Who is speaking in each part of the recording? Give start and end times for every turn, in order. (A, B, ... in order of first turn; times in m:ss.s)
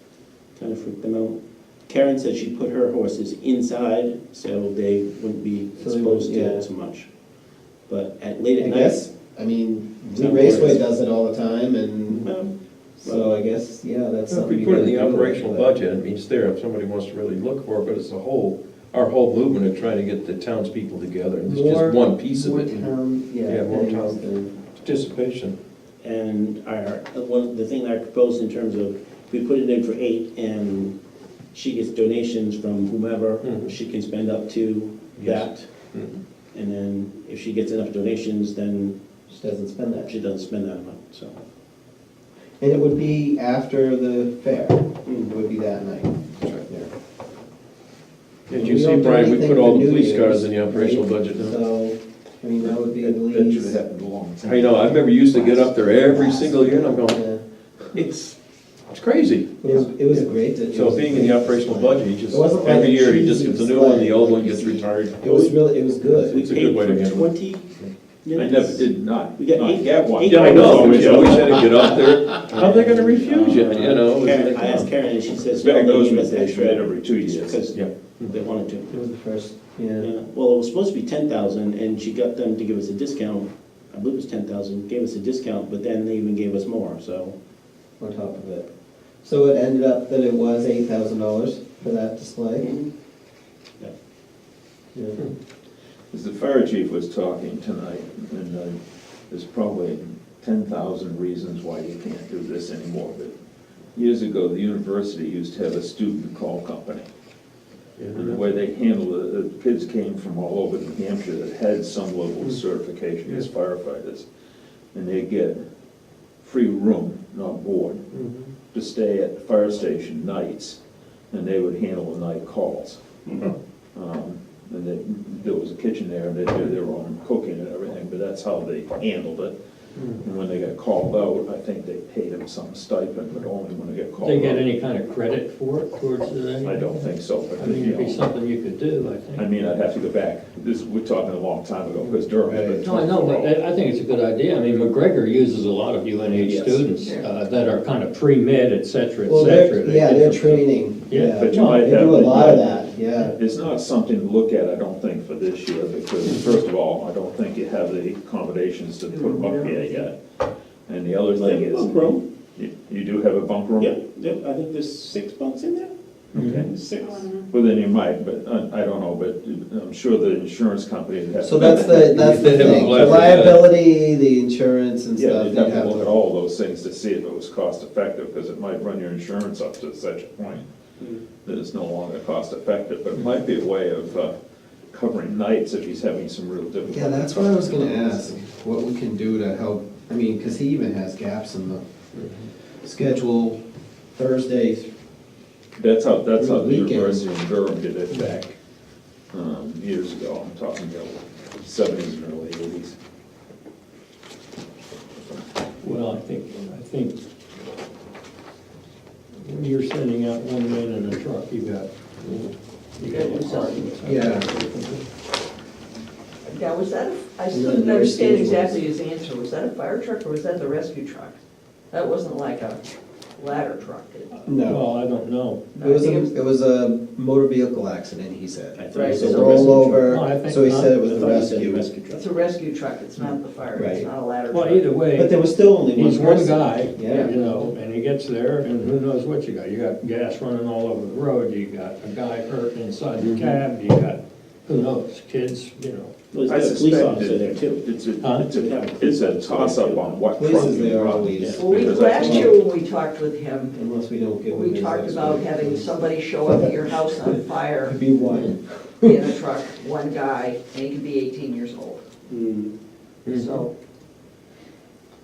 0:00.6-0:07.1 A
0:05.8-0:06.7 B
0:07.9-0:09.0 A
0:08.6-0:12.3 B
0:10.2-0:10.8 A
0:12.2-0:13.4 A
0:13.0-0:15.7 B
0:14.3-0:22.9 C
0:21.4-0:24.5 B
0:23.5-0:24.2 C
0:24.8-0:25.6 C
0:26.0-0:31.0 A
0:31.5-0:35.7 A
0:36.5-0:39.0 A
0:39.3-0:40.1 B
0:40.1-0:41.4 A
0:42.6-0:46.9 B
0:45.0-0:45.4 A
0:48.5-0:51.5 C
0:48.5-0:53.8 B
0:52.6-0:55.8 D
0:54.4-0:57.2 C
0:56.1-0:57.4 B
0:58.0-0:58.3 C
0:58.9-0:59.6 C
0:59.6-1:06.4 B
1:00.7-1:05.0 C
1:05.2-1:11.8 A
1:06.4-1:07.3 C
1:08.4-1:11.8 D
1:10.2-1:14.9 C
1:12.5-1:19.0 A
1:15.5-1:17.7 D
1:17.8-1:18.3 C
1:18.9-1:20.1 B
1:20.0-1:27.4 A
1:28.0-1:28.7 B
1:29.2-1:32.7 B
1:32.6-1:32.9 A
1:35.0-1:35.3 B
1:36.1-1:38.8 D
1:39.3-1:43.3 D
1:44.0-1:47.1 D
1:48.0-1:48.4 C
1:48.1-1:54.3 D
1:54.9-1:55.6 D
1:56.4-1:58.1 D
1:58.7-2:00.8 D
2:01.3-2:03.0 D
2:03.3-2:03.5 A
2:04.0-2:09.6 D
2:10.1-2:14.6 D
2:14.2-2:19.5 E
2:16.6-2:18.2 D
2:19.4-2:23.6 D
2:22.5-2:22.8 B
2:22.8-2:32.1 E
2:26.3-2:26.9 D
2:27.0-2:27.3 F
2:29.3-2:33.4 B
2:31.4-2:32.8 D
2:33.3-2:40.2 D
2:39.1-2:40.0 F
2:40.9-2:44.0 D
2:41.4-2:42.2 A
2:43.8-2:45.9 A
2:46.3-2:46.7 D
2:46.4-2:46.6 E
2:46.5-2:47.4 A
2:47.5-2:53.4 D
2:51.4-2:56.2 B
2:52.2-2:53.6 C
2:55.2-3:00.7 D
3:01.4-3:04.3 D
3:04.9-3:08.4 D
3:06.9-3:11.8 B
3:12.8-3:13.6 B
3:14.2-3:14.9 B
3:15.8-3:18.6 D
3:16.4-3:17.2 B
3:19.3-3:23.0 D
3:25.8-3:27.2 E
3:29.4-3:32.4 E
3:33.0-3:35.1 E
3:33.0-3:34.0 F
3:34.0-3:34.5 B
3:36.4-3:41.4 F
3:37.5-3:38.8 B
3:41.9-3:42.8 F
3:43.4-3:44.5 F
3:44.5-3:44.8 B
3:44.6-3:45.7 E
3:45.7-3:46.3 F
3:45.8-3:51.9 B
3:48.8-3:50.1 A
3:48.9-3:49.9 F
3:50.0-3:51.4 E
3:51.0-3:52.2 A
3:52.1-3:55.0 F
3:53.8-3:54.1 B
3:54.5-3:55.4 E
3:55.1-3:57.4 B
3:55.9-4:06.1 E
4:06.3-4:07.9 A
4:06.5-4:12.6 D
4:08.2-4:08.5 E
4:08.5-4:10.6 A
4:10.4-4:12.6 B
4:11.3-4:12.4 A
4:11.6-4:13.8 F
4:13.7-4:15.9 B
4:14.5-4:18.0 F
4:17.9-4:19.2 B
4:19.0-4:22.0 F
4:22.3-4:22.7 A
4:23.3-4:23.7 F